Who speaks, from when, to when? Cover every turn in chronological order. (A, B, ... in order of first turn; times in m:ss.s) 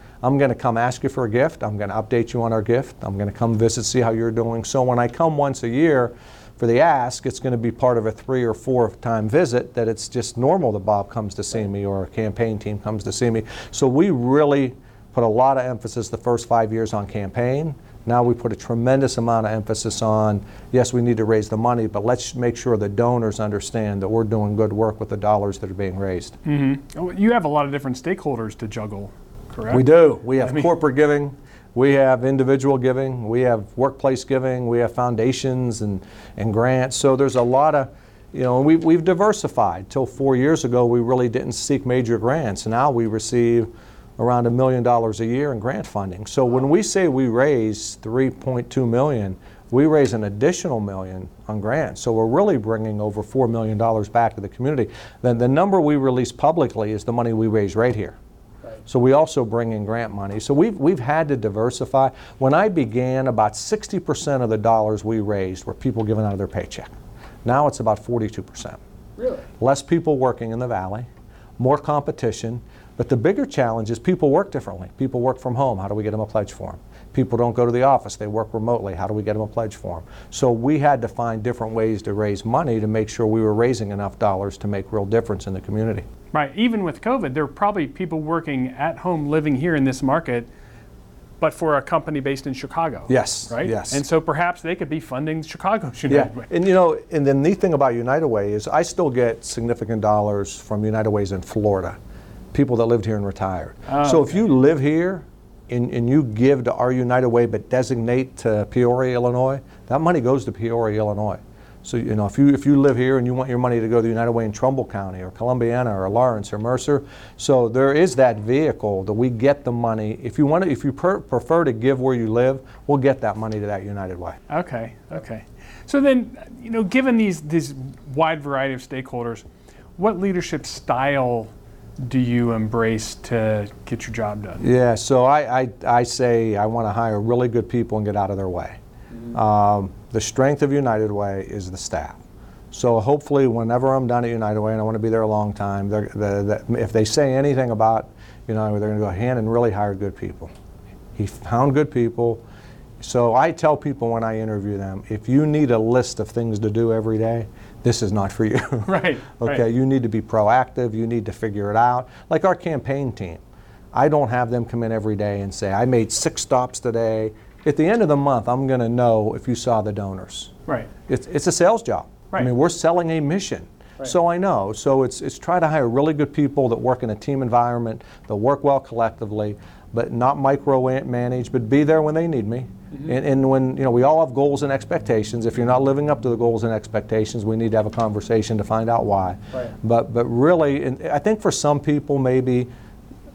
0:00.2-0:26.4 A
0:26.4-0:30.7 B
0:29.7-0:58.2 A
0:58.9-1:06.9 A
1:07.4-1:08.8 A
1:09.2-1:09.5 B
1:09.6-1:26.1 A
1:26.3-1:30.5 B
1:31.4-1:36.5 B
1:33.1-1:34.0 A
1:36.1-1:42.0 A
1:42.5-2:04.4 A
1:43.9-1:44.3 B
2:04.5-2:09.4 B
2:10.0-2:14.7 B
2:14.6-2:18.8 A
2:19.3-2:22.2 A
2:22.7-2:30.5 A
2:31.2-2:32.4 A
2:33.0-2:43.4 A
2:38.8-2:39.6 B
2:43.9-2:50.5 A
2:51.1-3:12.7 A